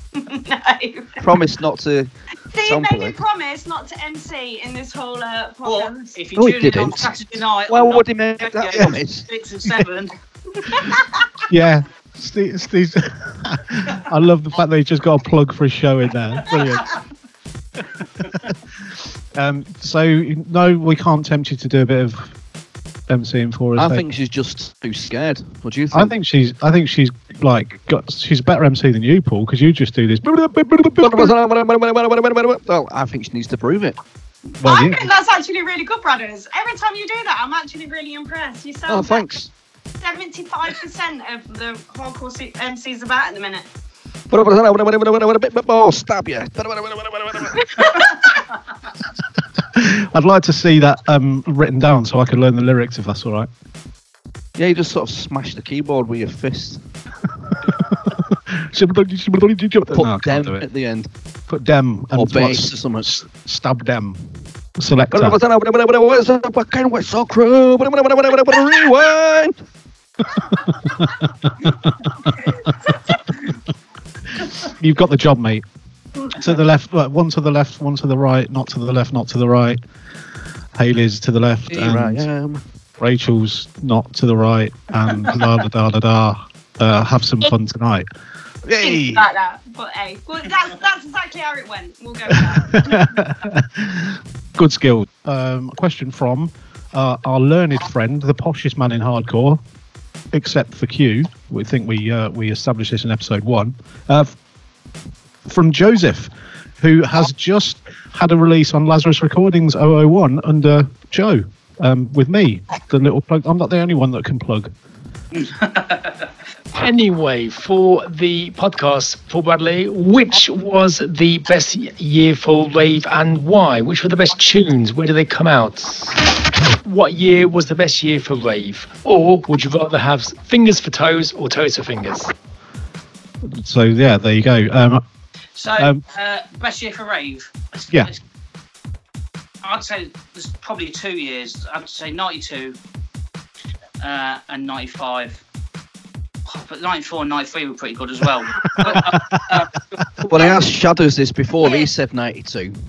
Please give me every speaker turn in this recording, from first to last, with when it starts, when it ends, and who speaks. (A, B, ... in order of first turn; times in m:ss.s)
0:00.2-0:01.2 A
0:01.2-0:03.1 B
0:02.5-0:06.1 A
0:05.6-0:10.1 C
0:06.4-0:07.2 B
0:07.7-0:09.2 B
0:10.6-0:11.0 A
0:11.5-0:16.9 D
0:18.2-0:18.5 D
0:19.3-0:22.3 D
0:23.1-0:24.0 D
0:23.8-0:26.1 B
0:25.9-0:31.3 D
0:31.0-0:34.0 B
0:34.6-0:35.1 D
0:34.6-0:39.2 A
0:38.9-0:39.5 B
0:40.0-0:43.6 A
0:44.3-0:48.0 B
0:47.6-0:48.1 A
0:49.7-0:53.5 D
0:54.6-0:56.8 B
0:57.6-1:00.6 D
0:59.9-1:01.1 B
1:01.5-1:05.4 D
1:02.1-1:03.1 B
1:05.1-1:09.6 B
1:10.8-1:12.1 D
1:14.6-1:15.6 D
1:16.4-1:19.8 D
1:20.7-1:22.3 D
1:21.7-1:22.6 B
1:23.0-1:28.0 D
1:28.6-1:29.2 D
1:28.8-1:33.1 A
1:32.4-1:39.6 D
1:40.3-1:44.3 D
1:45.4-1:54.7 D
1:55.4-1:56.2 C
1:56.7-2:12.3 E
2:13.4-2:15.0 D
2:15.6-2:18.2 C
2:19.6-2:22.8 C
2:24.0-2:25.4 C
2:26.4-2:29.7 C
2:28.7-2:29.5 D
2:30.2-2:32.7 B
2:31.6-2:31.9 A